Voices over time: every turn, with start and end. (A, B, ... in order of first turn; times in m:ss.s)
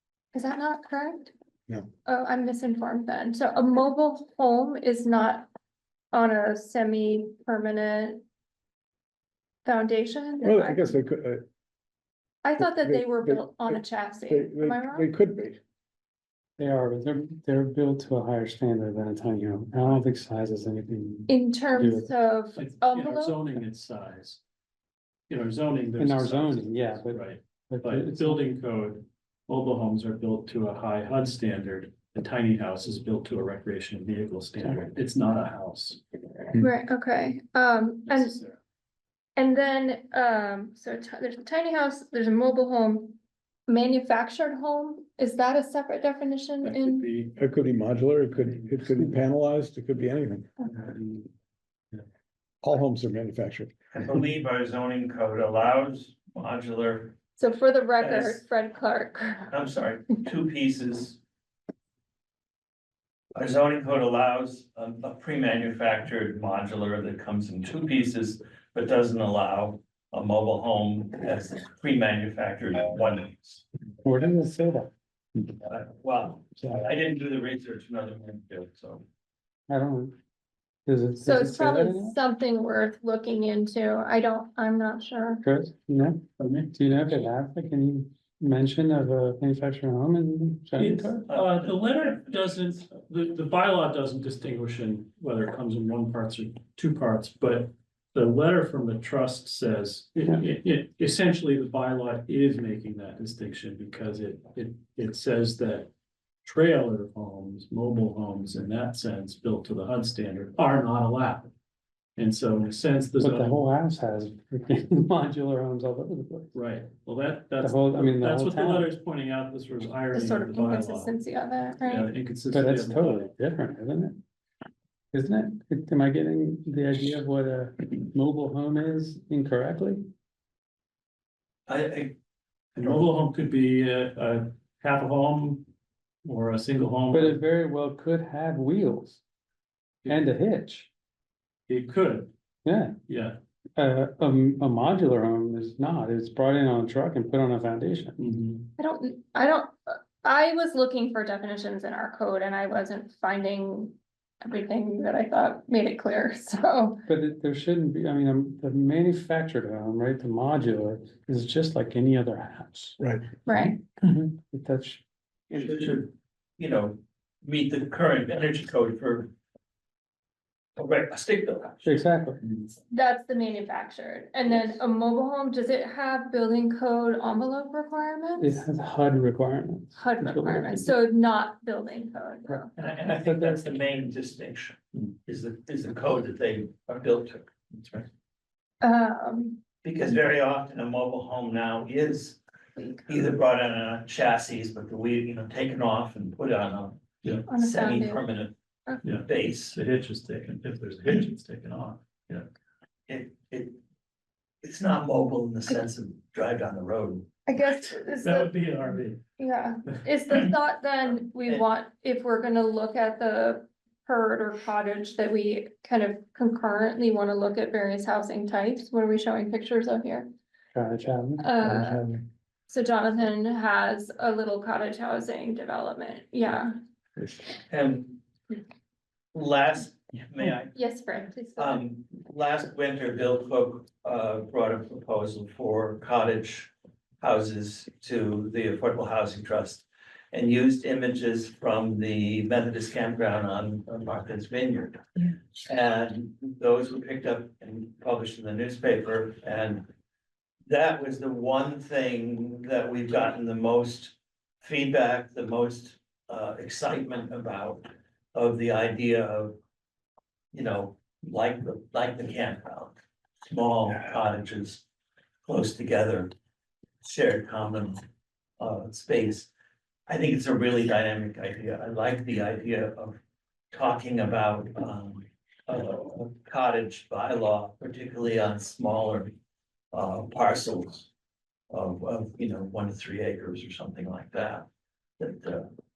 0:00.3-0:01.3 A
0:02.0-0:05.5 A
0:06.1-0:08.2 A
0:09.6-0:11.0 A
0:10.4-0:11.4 B
0:12.4-0:15.1 A
0:12.6-0:15.6 B
0:16.6-0:22.1 C
0:21.3-0:23.5 A
0:22.6-0:24.4 D
0:25.3-0:36.0 D
0:26.0-0:28.4 C
0:36.6-0:38.4 A
0:38.1-0:38.6 D
0:39.4-0:47.1 A
0:46.6-0:47.4 D
0:47.4-0:50.5 B
0:52.6-0:53.7 B
0:53.9-0:57.2 E
0:57.4-0:59.6 A
0:58.0-0:58.4 E
0:59.5-1:01.2 E
1:03.4-1:13.6 E
1:14.0-1:14.9 C
1:15.7-1:19.0 E
1:19.7-1:20.2 C
1:20.9-1:22.2 C
1:21.2-1:25.4 A
1:25.4-1:31.2 C
1:26.4-1:26.7 D
1:30.8-1:45.9 D
1:31.3-1:32.5 E
1:46.4-1:51.5 D
1:52.2-1:53.7 D
1:53.2-1:56.5 C
1:56.5-2:01.1 D
1:57.6-1:58.9 C
2:00.1-2:02.1 A
2:01.8-2:03.3 D
2:02.5-2:04.2 C
2:05.1-2:10.1 C
2:11.7-2:12.2 E
2:12.8-2:15.7 D
2:16.2-2:17.4 D
2:17.1-2:19.2 C
2:20.1-2:20.9 C
2:21.7-2:22.3 D
2:22.6-2:23.0 C
2:23.1-2:23.4 D
2:23.8-2:28.2 C
2:28.2-2:28.7 D
2:28.8-2:37.0 A
2:37.1-2:43.0 C
2:43.0-2:43.2 B
2:43.5-2:43.8 A
2:44.1-2:45.0 C
2:45.5-2:49.3 E
2:50.8-2:52.7 E
2:51.8-2:52.4 C
2:52.9-2:58.7 A
2:58.4-3:00.9 C
2:59.9-3:02.7 A
3:02.5-3:03.7 C
3:02.8-3:08.1 E
3:08.8-3:09.6 A
3:09.8-3:12.4 E
3:12.8-3:13.3 A
3:13.1-3:18.5 E
3:17.5-3:18.3 A
3:19.0-3:22.5 D
3:19.1-3:19.8 E
3:23.1-3:23.8 E
3:24.6-3:27.3 E
3:27.5-3:28.6 A
3:28.2-3:29.2 D
3:29.4-3:40.3 A
3:40.7-3:42.2 C
3:41.4-3:42.1 A
3:42.7-3:46.7 A
3:47.7-3:48.2 E
3:49.3-3:50.7 E
3:50.7-3:51.9 A
3:51.6-4:05.0 E
4:05.6-4:09.9 E
4:10.7-4:19.6 E
4:20.5-4:24.8 E
4:25.5-4:26.3 E
4:27.0-4:28.0 E
4:28.6-4:29.5 E
4:30.1-4:33.2 E
4:33.7-4:39.4 E
4:39.9-4:41.1 E
4:41.7-4:44.7 E
4:45.2-4:45.7 E